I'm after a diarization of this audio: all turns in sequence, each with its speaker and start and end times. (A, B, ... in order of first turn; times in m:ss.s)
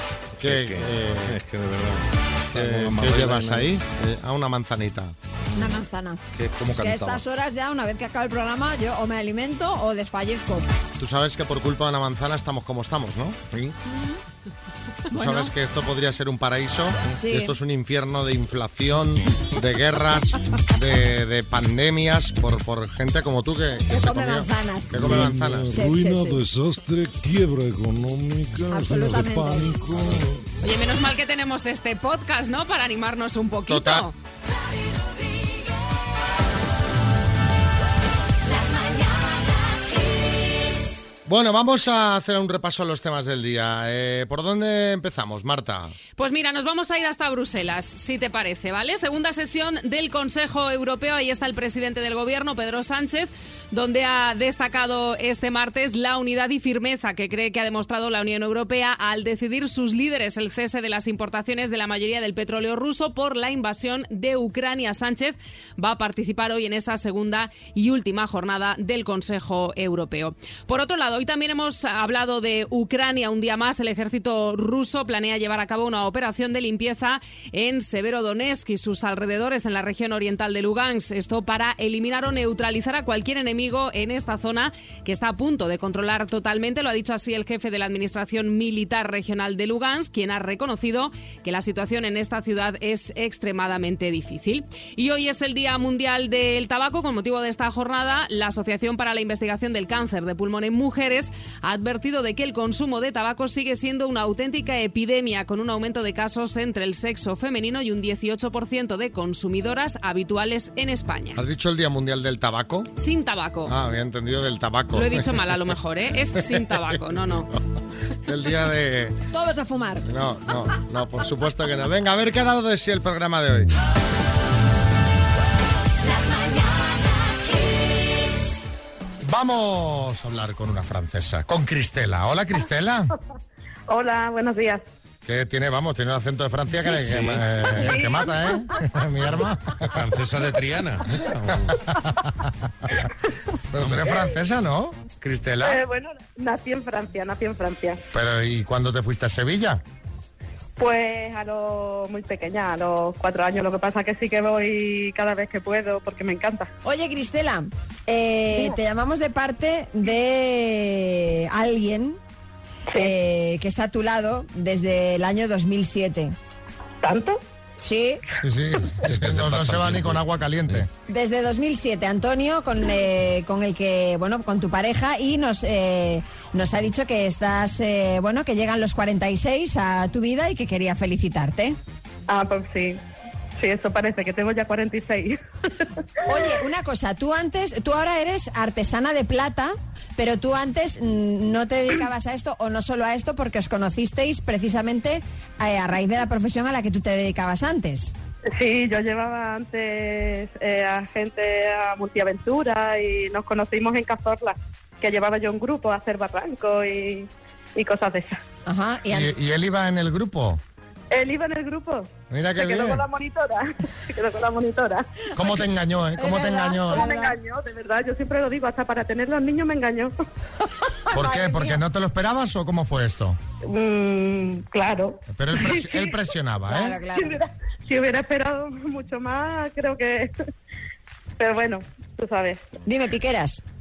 0:00.4-0:01.4 A
0:00.4-0:03.7 B
0:02.5-0:05.1 A
0:05.5-0:06.2 C
0:06.3-0:07.2 B
0:06.7-0:10.7 C
0:11.0-0:13.4 A
0:15.1-0:25.7 A
0:15.1-0:15.5 C
0:17.2-0:17.6 C
0:23.9-0:26.4 C
0:25.0-0:30.4 D
0:28.7-0:29.7 C
0:30.6-0:34.1 E
0:33.7-0:34.1 A
0:41.2-0:45.9 A
0:46.2-1:51.4 E
1:51.4-1:52.9 A
1:53.0-1:53.7 E
1:53.6-1:55.3 A
1:54.9-1:57.5 E
1:56.5-1:56.9 A
1:58.3-1:59.2 A
1:59.3-2:00.0 C
2:00.0-2:03.7 A
2:09.2-2:13.1 A
2:13.9-2:14.8 F
2:15.2-2:19.9 A
2:17.0-2:17.3 B
2:17.8-2:18.3 F
2:19.8-2:21.7 B
2:21.7-2:22.3 A
2:23.7-2:25.8 A
2:25.6-2:28.0 F
2:28.1-2:29.8 A
2:30.8-2:36.7 F
2:36.8-2:42.2 C
2:43.0-2:46.3 C
2:47.0-2:47.4 F
2:47.8-2:48.2 C
2:48.4-2:50.9 A
2:49.1-2:50.2 B
2:51.1-3:01.8 C
3:02.3-3:03.0 F
3:03.6-3:05.4 F
3:06.2-3:18.1 C
3:18.5-3:28.4 F
3:28.6-3:29.3 C
3:29.1-3:30.6 A
3:31.1-3:35.1 F
3:32.3-3:33.0 A
3:35.4-3:37.1 A
3:36.2-3:37.4 C
3:36.9-3:40.1 F
3:41.1-3:41.8 C
3:41.1-3:43.4 A
3:43.6-3:46.2 F
3:45.3-3:47.0 A
3:46.7-3:47.4 C
3:47.1-3:50.3 F
3:51.4-3:52.7 F
3:52.8-3:53.6 C